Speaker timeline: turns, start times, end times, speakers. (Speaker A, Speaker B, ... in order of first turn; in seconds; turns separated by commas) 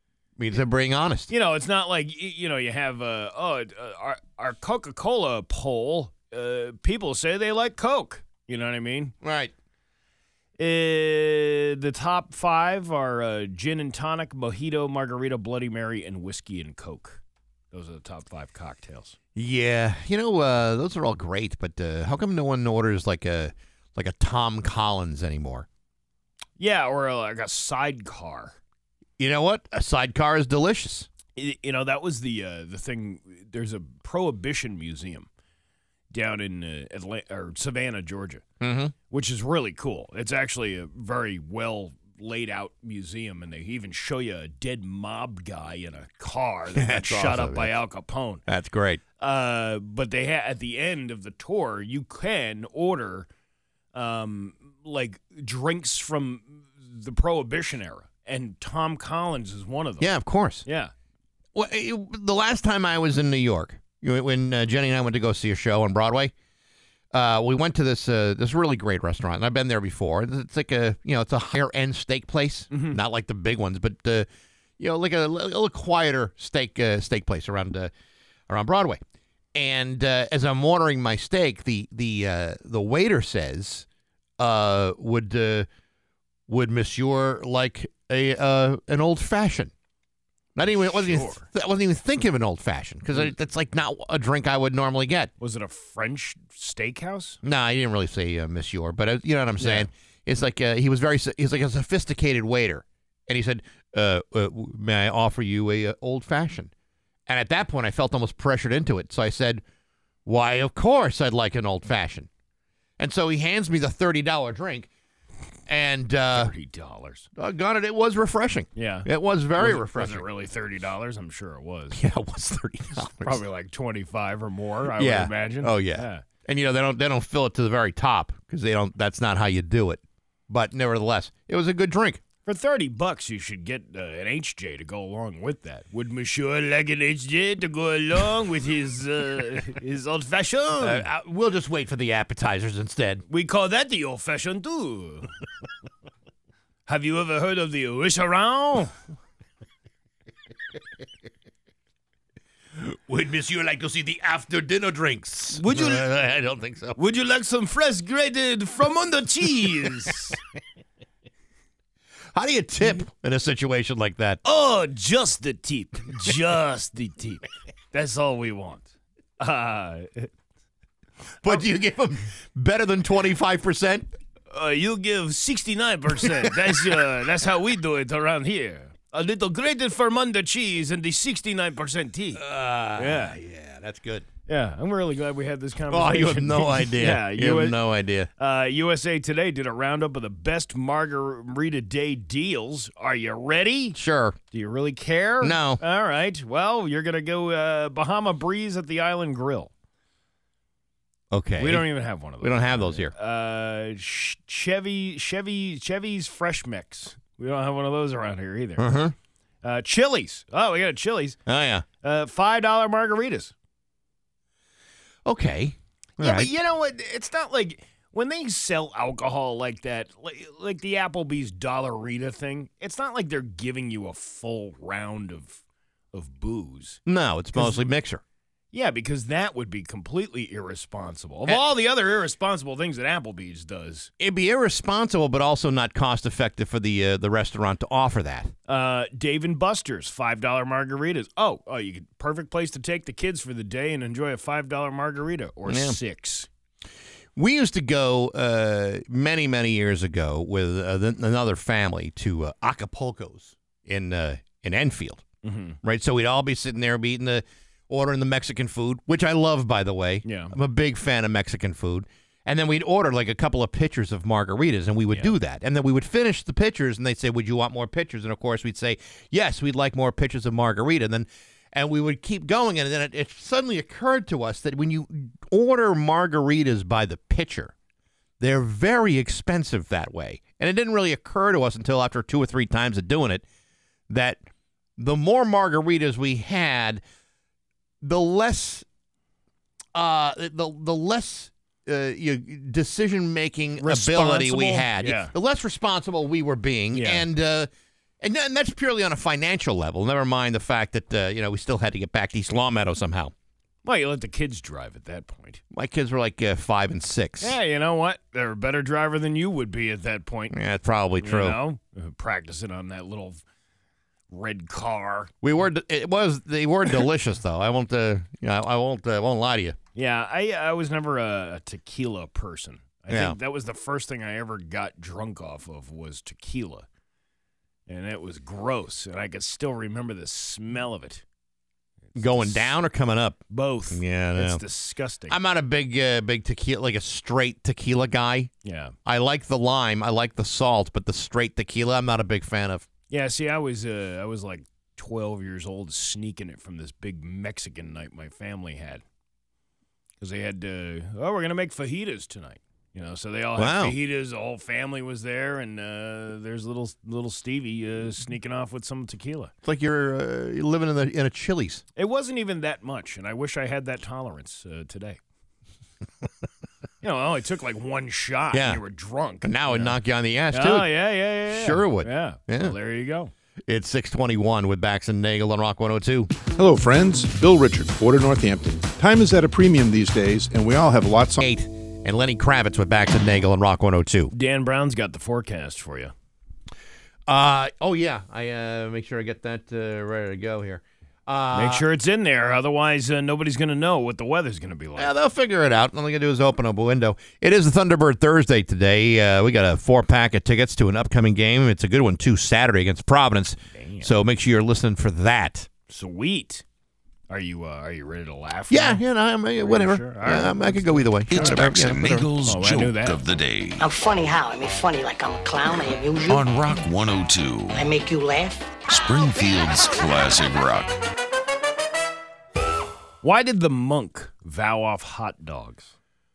Speaker A: 0.4-1.3, Speaker B: 1.3-9.1, Speaker A: 9.2-9.5, Speaker B: 10.6-19.1, Speaker A: 19.3-25.6, Speaker B: 26.6-28.6, Speaker A: 29.2-31.1, Speaker B: 31.3-35.3, Speaker B: 36.1-38.4, Speaker A: 38.6-38.9, Speaker B: 39.1-48.4, Speaker A: 46.8-47.8, Speaker A: 48.5-49.0, Speaker B: 49.2-53.3, Speaker B: 53.9-60.1, Speaker A: 60.0-60.6, Speaker B: 60.6-60.9, Speaker A: 61.5-66.3, Speaker A: 67.1-74.3, Speaker B: 72.7-73.0, Speaker A: 74.8-77.9, Speaker A: 78.5-79.0, Speaker A: 79.5-83.8, Speaker A: 84.4-85.7, Speaker A: 86.5-89.7, Speaker A: 90.5-95.3, Speaker B: 91.0-91.4, Speaker B: 95.4-97.4, Speaker A: 97.4-106.7, Speaker B: 99.6-99.9, Speaker A: 107.3-109.6, Speaker A: 110.2-112.3, Speaker A: 113.0-114.9, Speaker A: 115.7-116.5, Speaker B: 116.3-117.3, Speaker A: 117.4-120.2, Speaker B: 118.8-122.0, Speaker A: 121.9-123.4, Speaker B: 123.0-126.2, Speaker A: 124.9-132.2, Speaker B: 132.4-141.1, Speaker A: 140.8-143.2, Speaker B: 143.3-145.3, Speaker B: 146.9-148.9, Speaker A: 152.8-157.0, Speaker B: 155.5-156.0, Speaker B: 156.9-160.4, Speaker A: 162.3-164.4, Speaker B: 164.4-168.9, Speaker B: 169.4-170.3, Speaker A: 171.4-174.1, Speaker B: 174.5-182.4, Speaker A: 182.3-184.2, Speaker B: 182.9-183.3, Speaker B: 184.5-187.8, Speaker A: 185.9-188.3, Speaker B: 188.4-194.0, Speaker A: 193.9-194.4, Speaker B: 194.5-199.7, Speaker A: 195.4-195.8, Speaker A: 201.3-201.8, Speaker B: 201.6-208.9, Speaker A: 202.4-203.1, Speaker A: 208.8-209.1, Speaker B: 209.6-211.4, Speaker A: 211.5-211.8, Speaker B: 212.0-213.5, Speaker A: 215.2-216.5, Speaker B: 216.2-225.6, Speaker B: 226.1-227.0, Speaker A: 227.1-228.2, Speaker B: 227.5-227.8, Speaker B: 228.7-234.1, Speaker A: 234.2-238.5, Speaker B: 238.7-246.5, Speaker A: 245.7-246.0, Speaker A: 247.3-255.2, Speaker B: 255.4-255.8, Speaker A: 255.8-277.7, Speaker B: 260.2-260.5, Speaker A: 278.4-283.4, Speaker A: 284.1-284.4, Speaker A: 285.0-287.0, Speaker A: 288.0-288.9, Speaker A: 289.9-297.7, Speaker B: 293.8-295.3, Speaker B: 296.9-297.2, Speaker A: 298.2-303.3, Speaker B: 303.8-305.6, Speaker A: 305.7-307.6, Speaker B: 307.4-310.5, Speaker A: 310.5-311.6, Speaker B: 311.2-313.4, Speaker B: 314.3-315.3, Speaker A: 315.4-319.8, Speaker B: 319.9-326.9, Speaker A: 323.1-323.4, Speaker B: 327.9-331.2, Speaker B: 332.1-332.7, Speaker A: 332.1-334.6, Speaker B: 333.5-335.4, Speaker A: 335.3-338.5, Speaker B: 338.6-338.9, Speaker A: 339.0-342.9, Speaker B: 343.1-349.0, Speaker B: 350.2-359.5, Speaker A: 353.6-353.9, Speaker A: 359.6-361.8, Speaker B: 362.0-365.2, Speaker B: 367.0-370.0, Speaker A: 368.5-368.8, Speaker A: 369.4-370.9, Speaker B: 370.5-373.3, Speaker A: 371.5-372.8, Speaker A: 373.7-376.3, Speaker C: 376.5-381.4, Speaker A: 381.4-384.3, Speaker B: 384.3-386.1, Speaker A: 387.3-391.8, Speaker B: 391.5-395.1, Speaker A: 395.0-405.7, Speaker B: 403.7-404.1, Speaker B: 405.9-406.6, Speaker B: 407.3-409.0, Speaker A: 408.7-412.3, Speaker B: 409.6-411.6, Speaker D: 411.3-413.8, Speaker B: 412.4-413.2, Speaker E: 413.8-416.5, Speaker D: 416.3-417.8, Speaker E: 417.7-418.7, Speaker D: 418.9-420.9, Speaker B: 423.2-425.9